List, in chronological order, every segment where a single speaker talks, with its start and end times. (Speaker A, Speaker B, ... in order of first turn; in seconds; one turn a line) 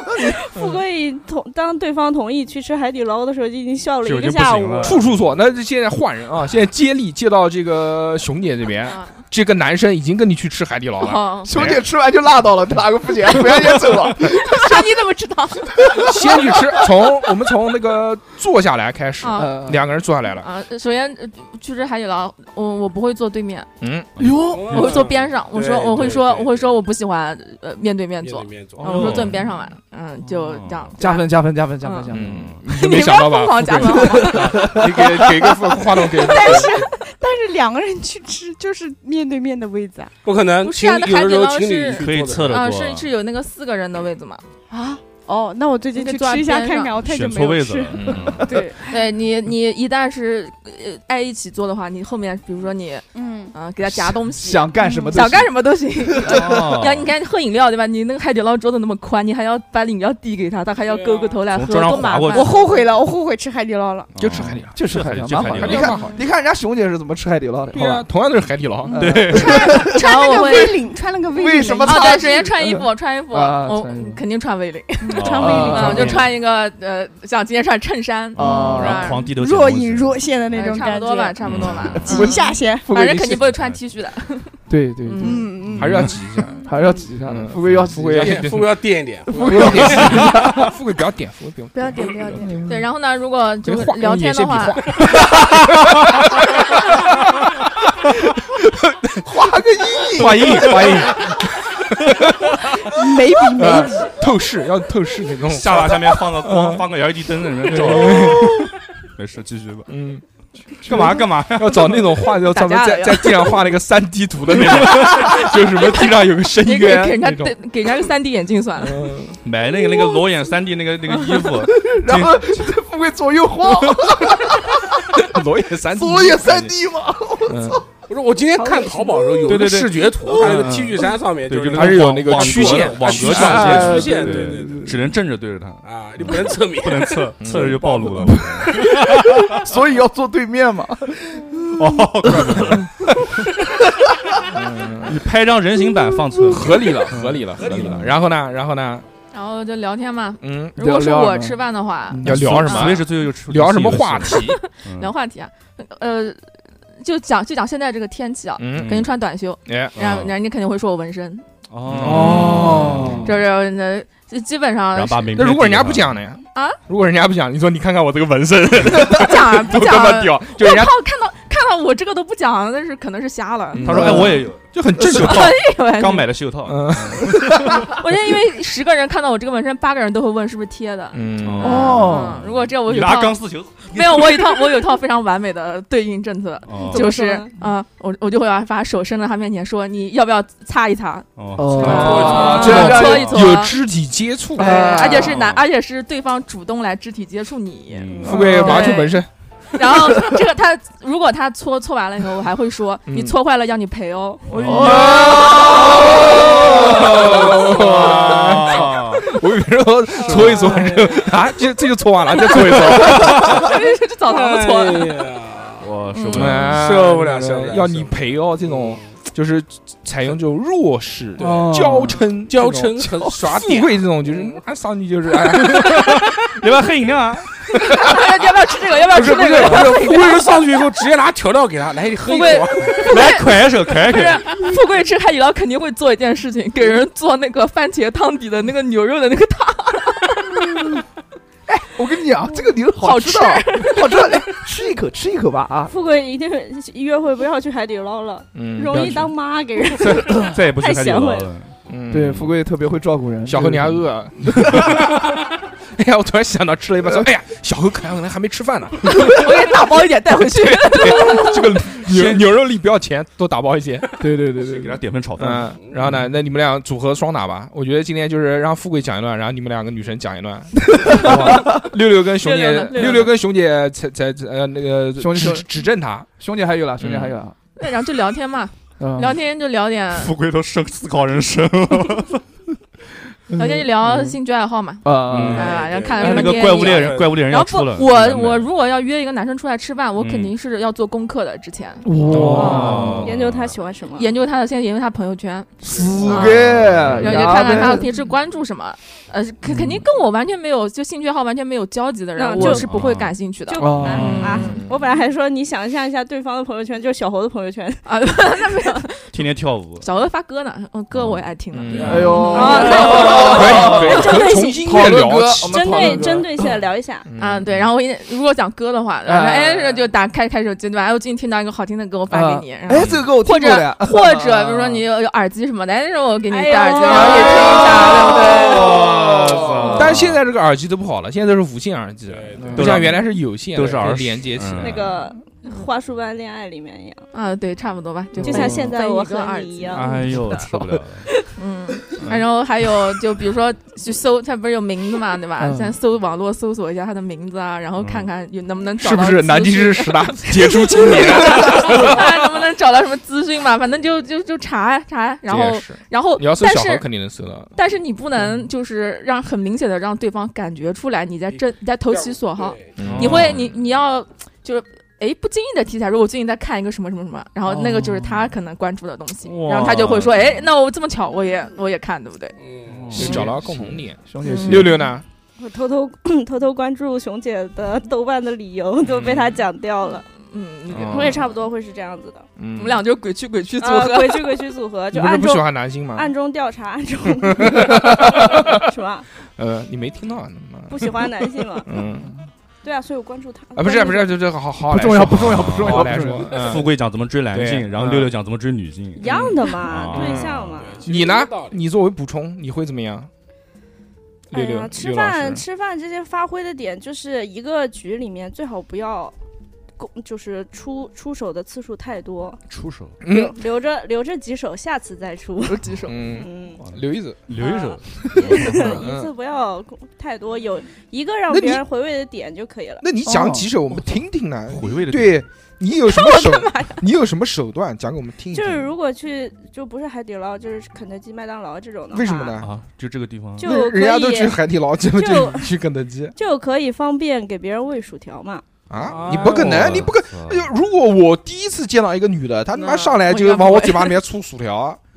Speaker A: 0.1-5.0
Speaker B: 4.0-5.2
Speaker C: 4.8-11.8
Speaker D: 8.9-9.2
Speaker D: 11.0-11.5
Speaker E: 11.4-14.7
Speaker D: 14.2-16.1
Speaker E: 15.8-16.5
Speaker C: 15.9-20.5
Speaker D: 19.2-19.6
Speaker E: 19.4-19.8
Speaker D: 20.3-23.7
Speaker C: 23.8-24.1
Speaker E: 24.2-24.9
Speaker F: 24.4-26.8
Speaker D: 24.7-34.8
Speaker F: 28.2-29.3
Speaker E: 28.8-29.2
Speaker B: 28.8-29.4
Speaker B: 30.2-31.0
Speaker E: 31.0-32.3
Speaker C: 32.1-36.8
Speaker B: 32.3-32.6
Speaker E: 33.9-35.5
Speaker G: 36.1-40.2
Speaker F: 40.2-42.6
Speaker D: 40.6-44.4
Speaker B: 41.9-43.1
Speaker G: 44.7-49.1
Speaker D: 45.9-47.0
Speaker B: 47.0-48.5
Speaker C: 47.9-48.4
Speaker D: 48.6-62.9
Speaker G: 53.1-53.5
Speaker E: 53.9-55.5
Speaker G: 54.8-55.3
Speaker E: 56.0-56.7
Speaker B: 56.2-57.1
Speaker F: 60.8-61.4
Speaker B: 61.5-62.5
Speaker G: 62.3-64.1
Speaker B: 64.1-66.0
Speaker C: 64.2-64.8
Speaker E: 64.7-68.1
Speaker C: 65.5-66.2
Speaker C: 67.7-69.2
Speaker E: 68.9-70.5
Speaker B: 69.0-69.7
Speaker G: 69.5-72.5
Speaker D: 69.7-70.8
Speaker E: 71.3-74.2
Speaker D: 71.8-79.3
Speaker G: 75.0-76.2
Speaker B: 75.1-76.1
Speaker E: 75.4-76.2
Speaker C: 75.8-76.2
Speaker B: 78.3-80.2
Speaker E: 78.4-79.0
Speaker G: 79.2-83.0
Speaker D: 80.5-85.6
Speaker B: 81.4-82.3
Speaker E: 82.0-83.5
Speaker B: 83.3-83.8
Speaker E: 84.7-86.1
Speaker G: 85.2-86.1
Speaker C: 85.7-86.7
Speaker E: 86.6-88.5
Speaker G: 86.8-87.0
Speaker C: 87.2-88.8
Speaker B: 87.6-87.9
Speaker F: 88.1-90.3
Speaker E: 89.3-90.7
Speaker C: 89.4-92.5
Speaker G: 91.7-92.7
Speaker E: 92.4-92.8
Speaker D: 92.7-95.0
Speaker C: 93.6-97.5
Speaker B: 95.2-95.6
Speaker C: 98.3-99.2
Speaker E: 99.2-100.9
Speaker C: 100.0-103.0
Speaker B: 100.2-101.2
Speaker G: 102.9-104.2
Speaker C: 103.5-106.9
Speaker B: 105.5-109.9
Speaker C: 107.6-108.7
Speaker C: 109.9-117.5
Speaker B: 110.8-112.2
Speaker D: 112.3-113.6
Speaker B: 114.5-115.4
Speaker D: 115.7-119.1
Speaker C: 118.8-119.4
Speaker B: 119.4-122.7
Speaker E: 121.6-125.1
Speaker C: 125.1-126.8
Speaker E: 125.9-127.8
Speaker C: 127.5-127.8
Speaker F: 128.1-134.9
Speaker A: 128.6-129.3
Speaker B: 129.4-130.7
Speaker C: 130.5-131.0
Speaker B: 131.5-139.6
Speaker C: 131.7-134.4
Speaker E: 133.2-134.9
Speaker F: 135.8-138.4
Speaker C: 137.4-137.9
Speaker E: 139.5-142.5
Speaker B: 141.8-142.9
Speaker C: 142.3-142.8
Speaker C: 144.5-145.2
Speaker B: 145.0-148.1
Speaker C: 146.5-149.1
Speaker D: 149.3-153.0
Speaker C: 150.4-150.8
Speaker E: 150.8-152.6
Speaker C: 152.2-154.6
Speaker B: 152.2-155.1
Speaker D: 154.3-161.4
Speaker C: 158.6-159.1
Speaker B: 158.7-159.1
Speaker C: 159.7-160.1
Speaker B: 160.0-160.3
Speaker B: 161.7-163.4
Speaker C: 161.9-163.2
Speaker E: 162.0-163.3
Speaker D: 163.2-165.4
Speaker B: 164.9-166.2
Speaker C: 165.3-170.9
Speaker D: 169.0-174.3
Speaker C: 173.7-175.6
Speaker B: 173.8-177.9
Speaker E: 174.0-174.3
Speaker D: 175.0-176.3
Speaker C: 176.6-177.6
Speaker D: 177.8-193.8
Speaker C: 181.1-182.1
Speaker B: 181.4-184.3
Speaker E: 181.6-182.4
Speaker B: 186.7-187.1
Speaker A: 186.8-187.5
Speaker B: 191.4-193.5
Speaker E: 191.6-193.3
Speaker F: 191.8-192.8
Speaker C: 192.5-194.9
Speaker E: 194.6-195.4
Speaker D: 194.6-199.2
Speaker B: 195.1-195.7
Speaker B: 197.9-198.9
Speaker C: 198.2-199.3
Speaker D: 199.7-205.0
Speaker C: 203.1-203.3
Speaker E: 204.5-207.1
Speaker B: 204.5-209.2
Speaker C: 205.1-213.7
Speaker F: 210.2-211.3
Speaker D: 213.2-215.3
Speaker F: 214.2-215.9
Speaker B: 215.8-216.8
Speaker D: 216.2-216.6
Speaker C: 216.3-226.2
Speaker F: 216.6-218.1
Speaker F: 218.6-219.1
Speaker F: 221.4-221.7
Speaker E: 221.4-222.2
Speaker F: 222.5-224.6
Speaker B: 225.7-227.5
Speaker D: 227.9-230.6
Speaker F: 229.1-233.1
Speaker D: 232.2-240.9
Speaker B: 233.0-234.5
Speaker E: 241.7-245.9
Speaker D: 243.0-244.5
Speaker A: 245.9-251.5
Speaker C: 248.5-249.3
Speaker B: 250.0-251.7
Speaker C: 251.9-252.4
Speaker E: 252.1-254.8
Speaker C: 253.4-255.1
Speaker C: 255.9-259.5
Speaker D: 259.2-261.8
Speaker C: 260.5-264.1
Speaker B: 262.0-262.4
Speaker E: 264.2-265.0
Speaker B: 264.6-265.7
Speaker C: 265.4-276.3
Speaker E: 270.9-271.8
Speaker D: 271.1-271.8
Speaker D: 272.4-273.3
Speaker E: 275.2-275.7
Speaker E: 276.4-277.5
Speaker B: 277.0-277.4
Speaker D: 277.8-280.3
Speaker E: 279.0-279.4
Speaker B: 280.1-282.4
Speaker E: 283.5-284.4
Speaker D: 283.6-293.0
Speaker E: 285.0-285.7
Speaker B: 285.3-288.7
Speaker F: 285.5-287.4
Speaker B: 290.2-290.6
Speaker E: 292.0-293.3
Speaker B: 292.3-293.7
Speaker A: 292.6-294.3
Speaker D: 294.1-304.8
Speaker E: 295.8-298.1
Speaker F: 295.8-296.3
Speaker B: 296.5-297.5
Speaker A: 302.4-302.9
Speaker B: 302.7-303.3
Speaker A: 303.6-308.6
Speaker E: 303.8-304.7
Speaker D: 308.1-309.4
Speaker B: 309.3-310.1
Speaker D: 310.0-314.2
Speaker B: 311.1-311.4
Speaker C: 311.7-316.3
Speaker F: 311.9-312.2
Speaker B: 311.9-312.4
Speaker E: 312.0-316.5
Speaker A: 312.4-315.1
Speaker A: 315.6-317.3
Speaker C: 317.3-317.7
Speaker D: 317.4-329.0
Speaker E: 319.2-320.0
Speaker E: 322.3-325.1
Speaker B: 323.0-323.2
Speaker A: 326.5-329.1
Speaker E: 327.1-330.0
Speaker B: 328.6-330.4
Speaker C: 329.9-335.2
Speaker F: 332.2-333.0
Speaker E: 332.6-332.9
Speaker B: 332.7-335.1
Speaker A: 334.8-337.2
Speaker D: 337.3-340.5
Speaker E: 338.4-338.9
Speaker A: 338.4-340.2
Speaker B: 339.9-341.3
Speaker D: 341.6-357.1
Speaker B: 342.2-342.4
Speaker E: 345.6-345.9
Speaker B: 348.0-348.3
Speaker C: 349.0-352.4
Speaker C: 355.5-357.7
Speaker D: 357.8-372.6
Speaker F: 361.5-363.1
Speaker C: 362.9-363.5
Speaker B: 363.0-363.8
Speaker E: 367.7-368.5
Speaker B: 369.4-370.7
Speaker F: 372.6-373.2
Speaker B: 372.9-374.0
Speaker C: 373.1-375.2
Speaker E: 374.2-375.0
Speaker D: 374.4-375.0
Speaker A: 375.6-380.3
Speaker C: 379.0-379.6
Speaker D: 380.4-381.4
Speaker C: 380.9-381.4
Speaker A: 381.0-382.4
Speaker C: 382.6-383.1
Speaker D: 382.7-384.7
Speaker A: 383.8-389.3
Speaker C: 385.1-386.3
Speaker C: 387.4-388.7
Speaker C: 389.6-392.3
Speaker A: 390.9-391.9
Speaker A: 392.8-394.4
Speaker C: 393.7-396.9
Speaker E: 394.9-396.5
Speaker B: 395.3-400.8
Speaker C: 397.5-398.3
Speaker A: 399.1-401.0
Speaker C: 399.2-403.3
Speaker F: 400.8-401.8
Speaker A: 404.5-409.3
Speaker C: 404.5-405.6
Speaker A: 410.0-412.6
Speaker B: 412.7-413.1
Speaker C: 413.2-413.6
Speaker A: 413.2-416.8
Speaker D: 415.6-416.2
Speaker C: 416.1-417.4
Speaker B: 416.8-419.0
Speaker A: 417.6-423.0
Speaker C: 418.6-419.3
Speaker C: 421.5-421.8
Speaker C: 423.0-428.9
Speaker E: 423.2-424.0
Speaker B: 424.7-425.4
Speaker D: 426.1-427.0
Speaker A: 428.5-432.6
Speaker C: 432.1-432.7
Speaker B: 432.6-433.7
Speaker A: 433.6-434.6
Speaker C: 433.6-436.3
Speaker A: 435.1-435.7
Speaker A: 436.4-438.6
Speaker C: 438.9-445.0
Speaker F: 439.1-439.5
Speaker B: 439.1-440.7
Speaker D: 442.7-444.2